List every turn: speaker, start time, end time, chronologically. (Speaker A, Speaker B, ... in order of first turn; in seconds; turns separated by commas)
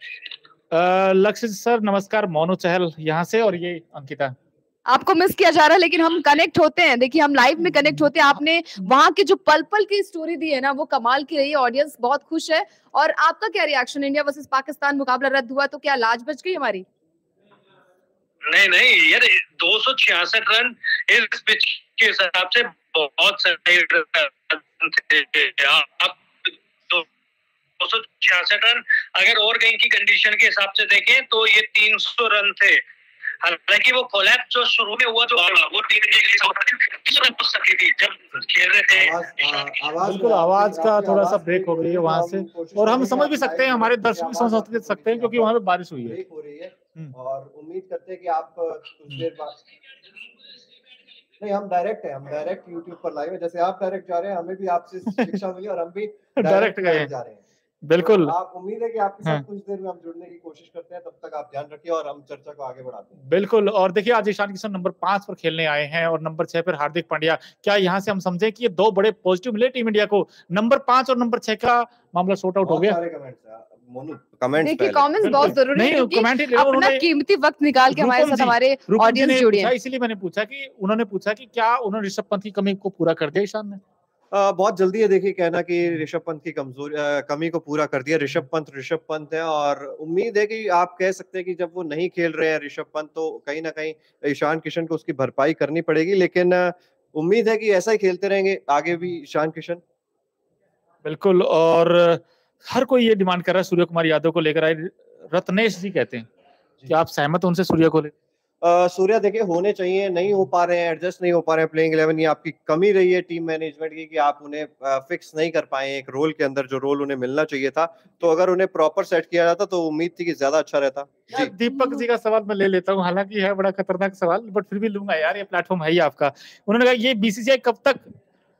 Speaker A: 0.7-4.3, Speaker B: 4.9-16.9, Speaker A: 7.6-8.1, Speaker C: 18.5-27.1, Speaker C: 27.8-32.8, Speaker C: 33.4-39.7, Speaker D: 38.9-49.6, Speaker A: 40.0-46.2, Speaker D: 51.4-57.4, Speaker A: 55.1-55.4, Speaker A: 56.4-57.1, Speaker A: 57.8-58.3, Speaker D: 58.0-63.2, Speaker A: 63.2-73.0, Speaker D: 72.6-75.1, Speaker B: 74.6-79.7, Speaker A: 75.2-77.0, Speaker A: 77.9-83.8, Speaker D: 84.3-99.8, Speaker A: 101.0-106.3, Speaker A: 106.9-108.1, Speaker D: 108.6-121.5, Speaker A: 121.3-128.1, Speaker B: 121.7-122.0